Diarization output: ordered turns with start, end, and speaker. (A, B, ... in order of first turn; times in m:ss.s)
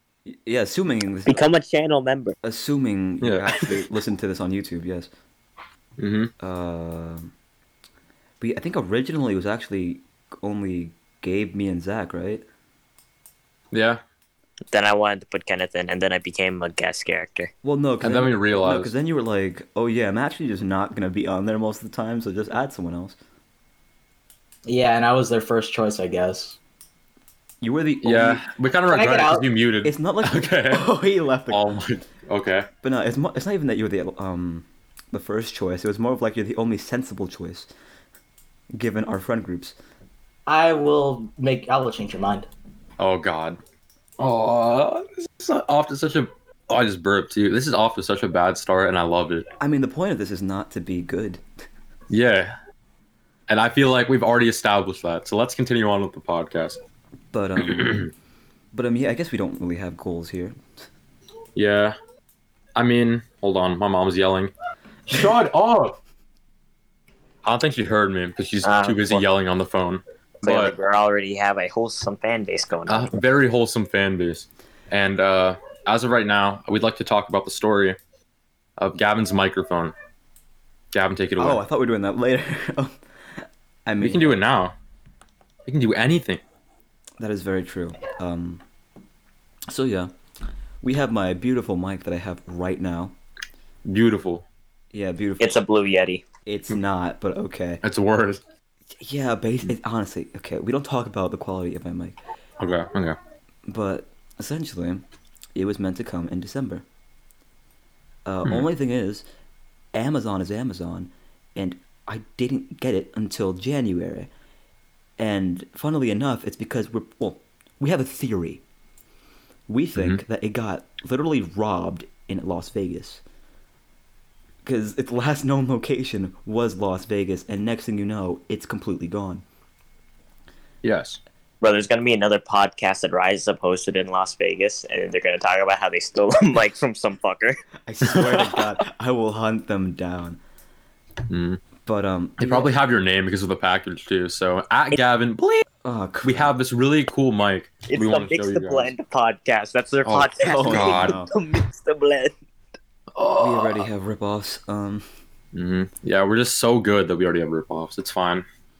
0:00.3-0:01.4 A
0:01.2-0:02.4 B
0:02.4-0:05.1 A
0:03.2-0:03.7 C
0:06.0-0:06.3 C
0:06.4-0:07.3 A
0:08.4-0:12.4 A
0:13.7-0:14.0 C
0:14.7-0:17.5 B
0:17.6-0:23.2 A
0:18.0-0:18.9 C
0:24.6-0:26.6 D
0:27.6-0:28.4 A
0:28.0-0:30.8 C
0:28.9-0:29.4 D
0:29.8-0:31.6 A
0:31.5-0:32.7 C
0:32.8-0:37.7 A
0:38.7-0:39.8 A
0:40.5-0:42.5 D
0:43.0-0:43.6 C
0:44.2-0:49.4 C
0:49.6-0:51.4 A
0:52.1-0:52.5 C
0:53.5-0:56.8 C
0:57.3-0:58.1 A
0:57.6-0:58.1 C
0:58.7-1:00.8 A
1:01.6-1:01.9 C
1:02.8-1:04.5 C
1:05.1-1:06.0 C
1:07.4-1:10.7 C
1:08.6-1:09.2 B
1:10.4-1:13.1 B
1:12.9-1:18.0 C
1:18.8-1:19.9 C
1:20.9-1:21.6 C
1:21.4-1:24.4 A
1:24.0-1:24.7 C
1:25.6-1:26.4 C
1:27.2-1:28.6 A
1:29.7-1:30.1 A
1:30.8-1:33.1 A
1:33.8-1:34.4 C
1:34.9-1:35.6 A
1:35.4-1:36.2 B
1:36.4-1:37.8 A
1:37.8-1:38.4 C
1:39.0-1:42.2 A
1:42.6-1:43.2 C
1:43.6-1:45.0 A
1:45.5-1:46.8 A
1:48.2-1:49.2 A
1:49.9-1:54.3 A
1:55.2-1:58.6 A
1:59.7-2:03.2 A
2:04.6-2:09.4 A
2:10.8-2:11.2 C
2:11.6-2:17.6 B
2:17.8-2:20.4 A
2:18.1-2:18.5 C
2:21.3-2:21.6 C
2:21.8-2:22.7 A
2:22.4-2:25.7 C
2:25.8-2:26.5 A
2:26.2-2:28.9 C
2:27.9-2:32.3 B
2:30.0-2:31.1 C
2:30.4-2:31.3 A
2:33.2-2:33.9 C
2:33.3-2:35.0 A
2:35.5-2:38.4 C